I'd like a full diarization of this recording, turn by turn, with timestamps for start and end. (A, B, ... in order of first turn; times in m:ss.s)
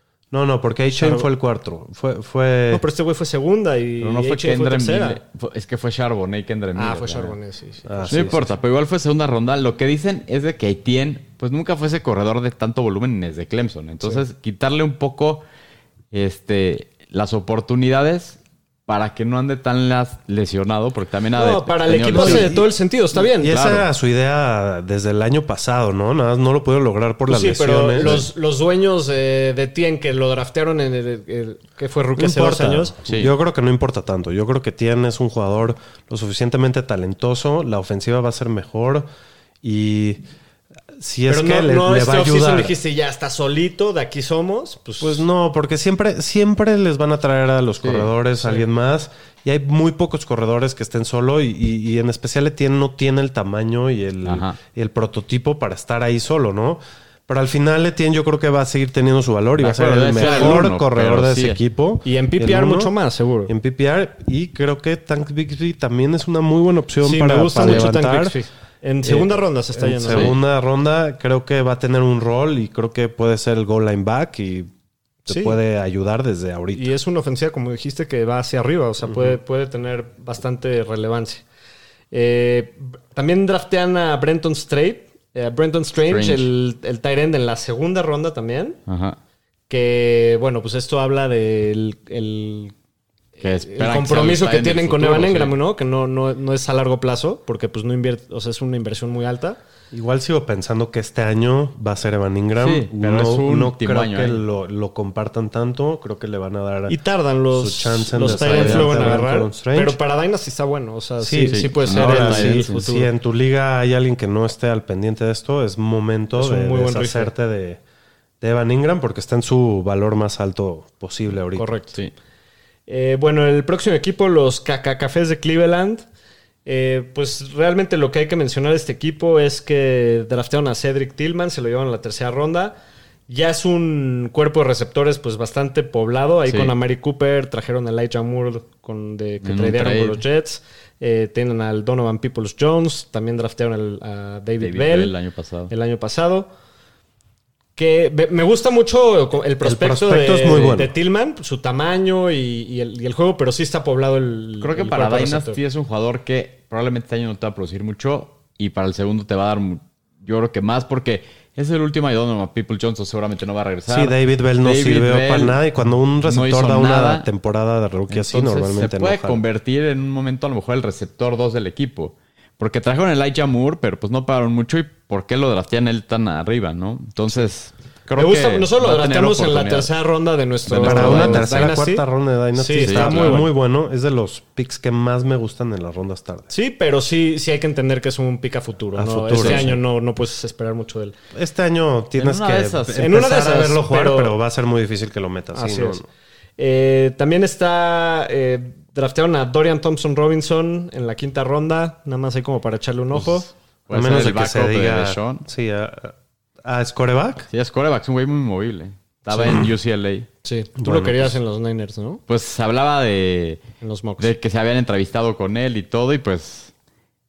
0:00.3-0:02.8 A
0:01.0-0:01.3 B
0:02.7-0:05.2 B
0:04.0-0:07.3 C
0:06.8-0:08.4 B
0:07.8-0:08.5 A
0:08.1-0:15.4 C
0:16.1-0:22.5 C
0:21.4-0:23.6 B
0:22.0-0:22.7 A
0:23.3-0:28.3 A
0:23.4-0:23.9 C
0:27.3-0:32.9 B
0:32.2-0:39.1 A
0:33.1-0:33.3 C
0:39.6-0:40.2 A
0:40.9-0:42.7 A
0:41.3-0:45.2 B
0:45.0-1:02.9 A
0:47.8-0:48.1 C
0:48.4-0:48.6 B
0:54.2-0:54.6 C
0:59.6-1:01.6 C
1:00.2-1:00.6 B
1:02.0-1:03.5 B
1:03.4-1:08.4 A
1:07.0-1:10.3 B
1:07.6-1:07.9 C
1:09.0-1:14.7 A
1:10.1-1:10.3 C
1:15.2-1:16.9 A
1:15.3-1:15.6 B
1:16.7-1:21.4 B
1:19.0-1:19.4 A
1:22.1-1:28.8 B
1:26.0-1:26.5 C
1:28.9-1:29.2 C
1:29.7-1:32.7 B
1:33.4-1:39.6 B
1:33.4-1:35.5 C
1:39.9-1:47.0 A
1:42.6-1:44.4 C
1:46.9-1:53.1 B
1:47.5-1:50.0 A
1:48.2-1:49.2 C
1:51.2-1:57.8 A
1:51.5-1:52.8 C
1:56.4-1:57.3 B
1:58.4-2:01.7 A
2:01.5-2:02.0 B
2:02.9-2:06.0 B
2:06.6-2:12.8 B
2:13.3-2:25.1 B
2:16.4-2:16.7 C
2:19.4-2:20.2 C
2:24.6-2:25.7 C
2:25.7-2:26.5 B
2:27.8-2:35.6 B
2:29.6-2:30.9 A
2:34.6-2:45.6 C
2:43.9-2:49.4 A
2:46.2-2:47.3 C
2:48.1-2:59.9 C
2:58.2-3:03.5 B
3:00.7-3:01.7 C
3:00.8-3:06.5 A
3:02.8-3:03.5 C
3:06.5-3:11.2 B
3:09.0-3:09.8 A
3:09.3-3:09.7 C
3:11.3-3:16.1 A
3:12.2-3:13.1 C
3:13.0-3:14.4 B
3:15.5-3:16.0 B
3:16.6-3:23.5 B
3:23.2-3:25.4 C
3:23.9-3:27.5 A
3:27.5-3:30.3 C
3:29.3-3:29.6 A
3:30.4-3:32.2 B
3:30.8-3:31.4 A
3:32.3-3:33.6 C
3:33.8-3:34.3 B
3:34.2-3:36.7 C